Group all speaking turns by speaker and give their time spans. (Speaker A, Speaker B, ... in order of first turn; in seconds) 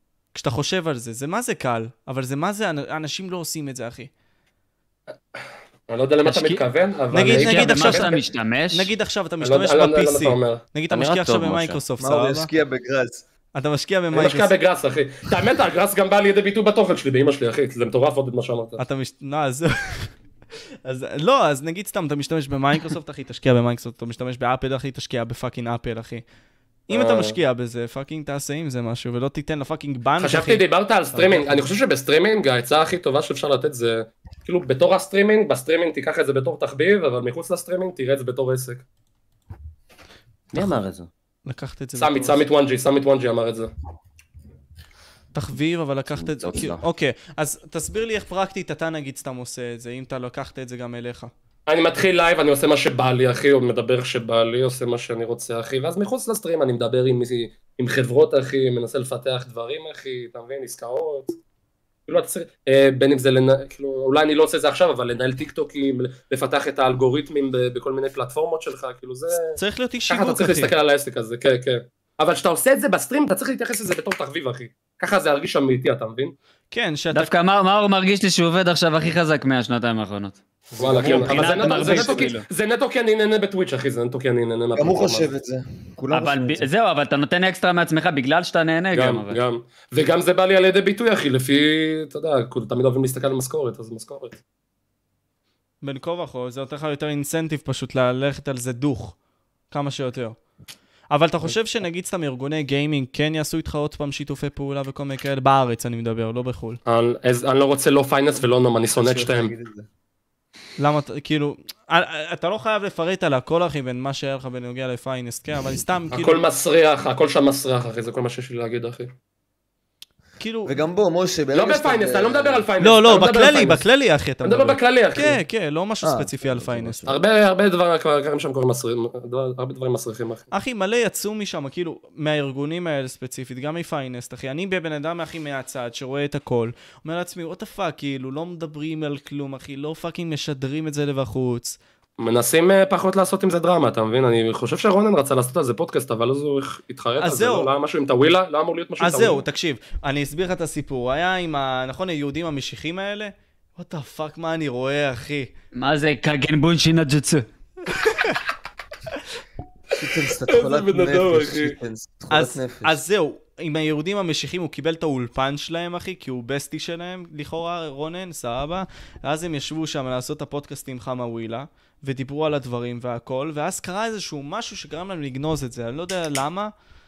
Speaker A: 0.3-4.1, 7.1-8.2, 8.7-12.5, 13.5-14.5, 18.8-20.1, 20.8-26.2, 26.9-31.7, 40.5-40.8, 41.5-42.4, 45.3-51.3, 69.5-70.7, 76.7-77.3, 95.8-99.1, 99.7-100.4, 101.1-106.8, 110.8-116.4, 120.4-120.7, 122.8-127.1, 130.5-141.8, 147.2-147.7, 149.0-155.5, 162.3-176.7
Speaker B: 5.9-8.1, 9.4-10.6, 14.1-18.8, 26.9-27.4, 30.2-38.8, 42.0-43.7, 51.7-61.4, 62.1-69.5, 70.1-76.3, 80.8-85.3, 88.9-94.4, 106.8-109.5, 116.1-119.1, 121.5-123.8, 124.4-125.4, 127.0-130.5, 142.2-149.4, 160.5-161.8
Speaker C: 6.2-6.6, 7.3-8.9, 77.1-80.4, 81.0-82.4, 86.1-89.4, 155.7-157.4
Speaker D: 10.9-11.8, 40.5-41.1, 46.2-46.8
Speaker E: 12.0-13.2, 80.7-82.3, 84.8-86.7, 108.9-109.9, 120.7-122.7, 126.0-127.2, 160.0-163.0